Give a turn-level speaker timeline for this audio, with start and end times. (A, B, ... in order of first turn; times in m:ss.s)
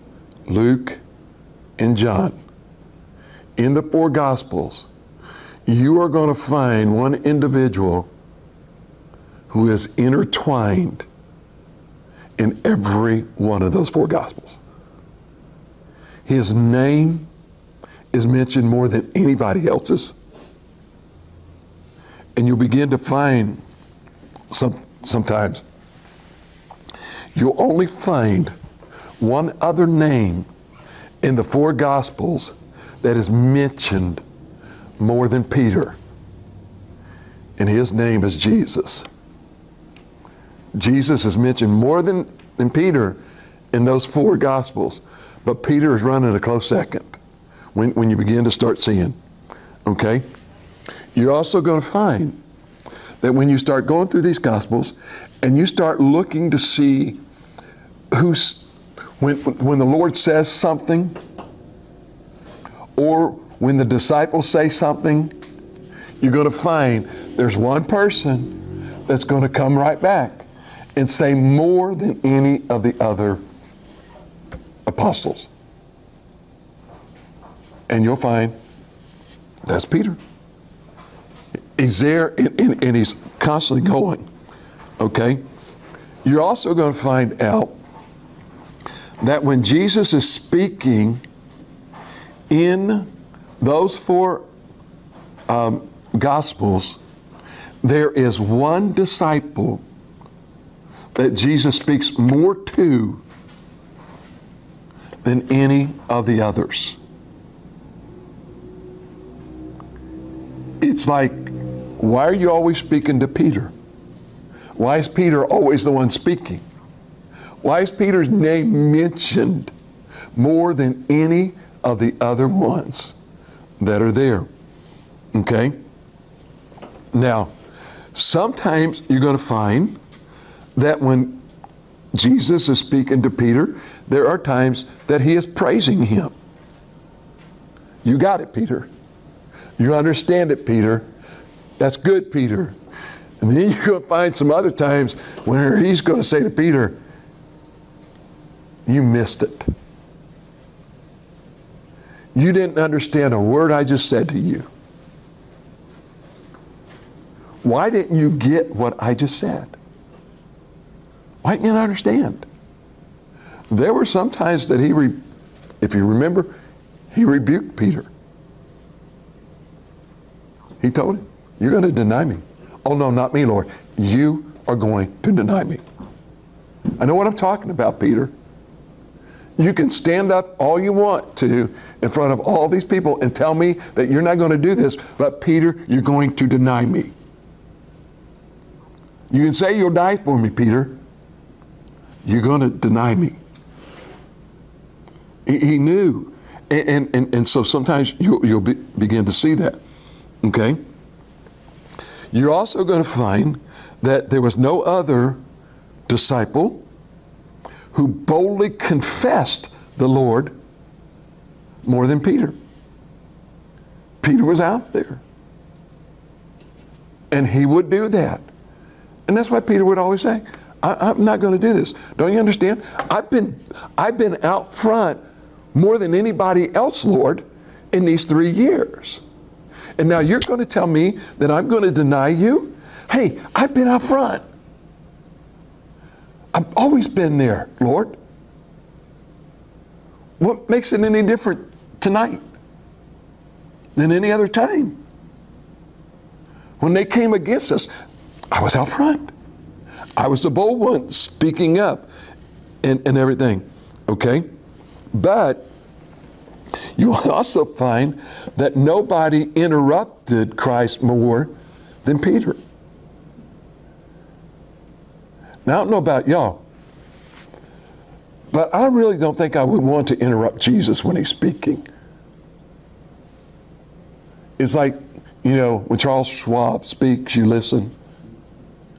0:00.5-0:01.0 A
0:01.8-0:02.4 A
0:03.6-0:04.9 A
0:05.7-0:08.1 A
0:09.5-0:11.1 A
0:12.4-0:14.6 A
0:16.3-0:17.3 A
0:18.1-0:20.2 A
0:22.4-0:23.6 A
0:24.5-0:25.6 A
0:27.4-0:28.5 A
0:29.2-0:30.5 A
0:31.2-0:34.2 A
0:35.0-0:36.0 A
0:37.6-0:39.1 A
0:40.7-0:43.2 A
0:43.7-0:47.2 A
0:47.7-0:49.2 A
0:49.8-0:50.3 A
0:51.1-0:52.4 A
0:53.2-0:57.2 A
0:58.1-1:01.2 A
1:03.0-1:05.4 A
1:06.2-1:13.4 A
1:14.9-1:15.5 A
1:17.9-1:18.6 A
1:19.6-1:20.2 A
1:21.8-1:24.3 A
1:25.0-1:25.4 A
1:26.2-1:27.8 A
1:29.2-1:31.2 A
1:32.5-1:34.5 A
1:35.5-1:37.0 A
1:37.8-1:39.8 A
1:41.2-1:43.2 A
1:45.2-1:47.0 A
1:50.8-1:53.7 A
1:54.8-1:56.6 A
1:57.6-1:59.7 A
2:00.4-2:03.2 A
2:03.8-2:04.5 A
2:05.3-2:05.8 A
2:07.1-2:07.5 A
2:08.1-2:10.0 A
2:10.8-2:11.4 A
2:12.1-2:16.3 A
2:18.0-2:18.9 A
2:19.8-2:21.1 A
2:21.8-2:22.8 A
2:23.4-2:27.0 A
2:28.9-2:29.7 A
2:32.4-2:34.7 A
2:37.6-2:39.8 A
2:41.4-2:42.5 A
2:43.7-2:45.2 A
2:45.8-2:46.6 A
2:47.1-2:48.1 A
2:50.8-2:55.8 A
2:57.0-2:58.3 A
2:59.6-3:07.1 A
3:09.3-3:11.0 A
3:12.2-3:13.4 A
3:15.5-3:19.8 A
3:20.4-3:20.8 A
3:22.3-3:25.4 A
3:26.1-3:26.8 A
3:27.9-3:30.6 A
3:31.8-3:32.6 A
3:34.2-3:35.2 A
3:37.3-3:38.4 A
3:39.3-3:45.2 A
3:45.7-3:49.2 A
3:50.0-3:54.4 A
3:56.5-3:58.2 A
4:00.4-4:02.4 A
4:04.0-4:05.0 A
4:06.8-4:07.9 A
4:08.5-4:09.3 A
4:10.2-4:12.1 A
4:12.8-4:14.5 A
4:15.1-4:15.7 A
4:17.0-4:22.6 A
4:25.6-4:26.6 A
4:28.5-4:31.8 A
4:34.6-4:37.9 A